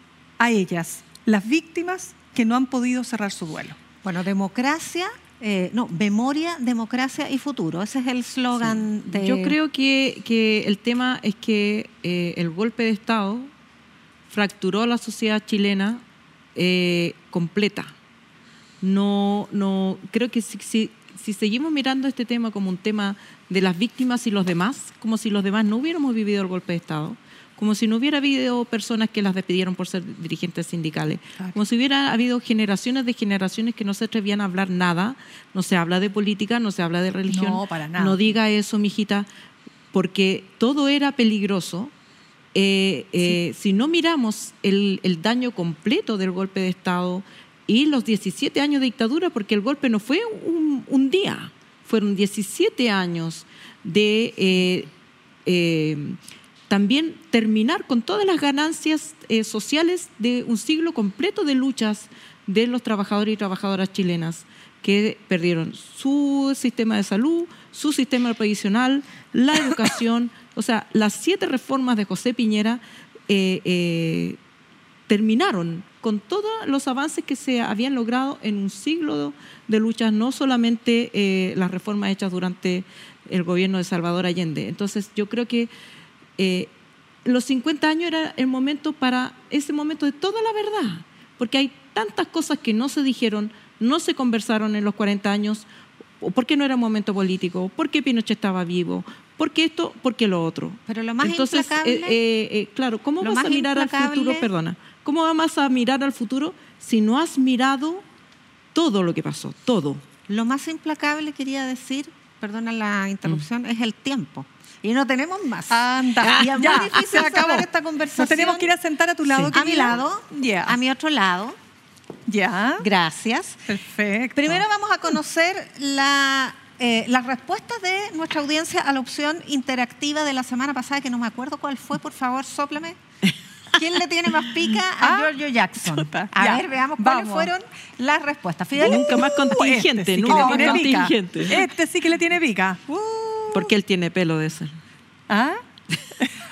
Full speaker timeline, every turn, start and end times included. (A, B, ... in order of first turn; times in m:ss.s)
0:00.4-0:03.8 A
0:04.0-0:09.6 B
0:08.6-0:13.5 C
0:14.3-0:16.0 C
0:16.5-0:17.9 C
0:18.8-0:39.3 C
0:37.3-0:38.2 A
0:39.9-0:41.9 C
0:42.5-0:54.9 C
0:55.4-0:56.2 C
0:56.7-1:14.4 C
1:15.1-1:25.7 C
1:26.4-1:26.7 C
1:27.2-1:35.6 C
1:36.2-1:48.0 C
1:40.9-1:42.2 B
1:43.2-1:44.5 B
1:48.7-1:50.0 C
1:50.3-1:58.7 B
1:55.7-2:00.8 A
1:59.5-2:01.6 B
2:02.3-2:02.9 A
2:02.8-2:03.6 B
2:03.7-2:04.6 A
2:04.4-2:13.0 B
2:13.7-2:19.4 B
2:15.0-2:15.3 A
2:15.8-2:17.5 A
2:18.8-2:21.7 C
2:18.8-2:23.7 A
2:20.3-2:21.0 B
2:23.5-2:24.8 C
2:25.3-2:25.6 A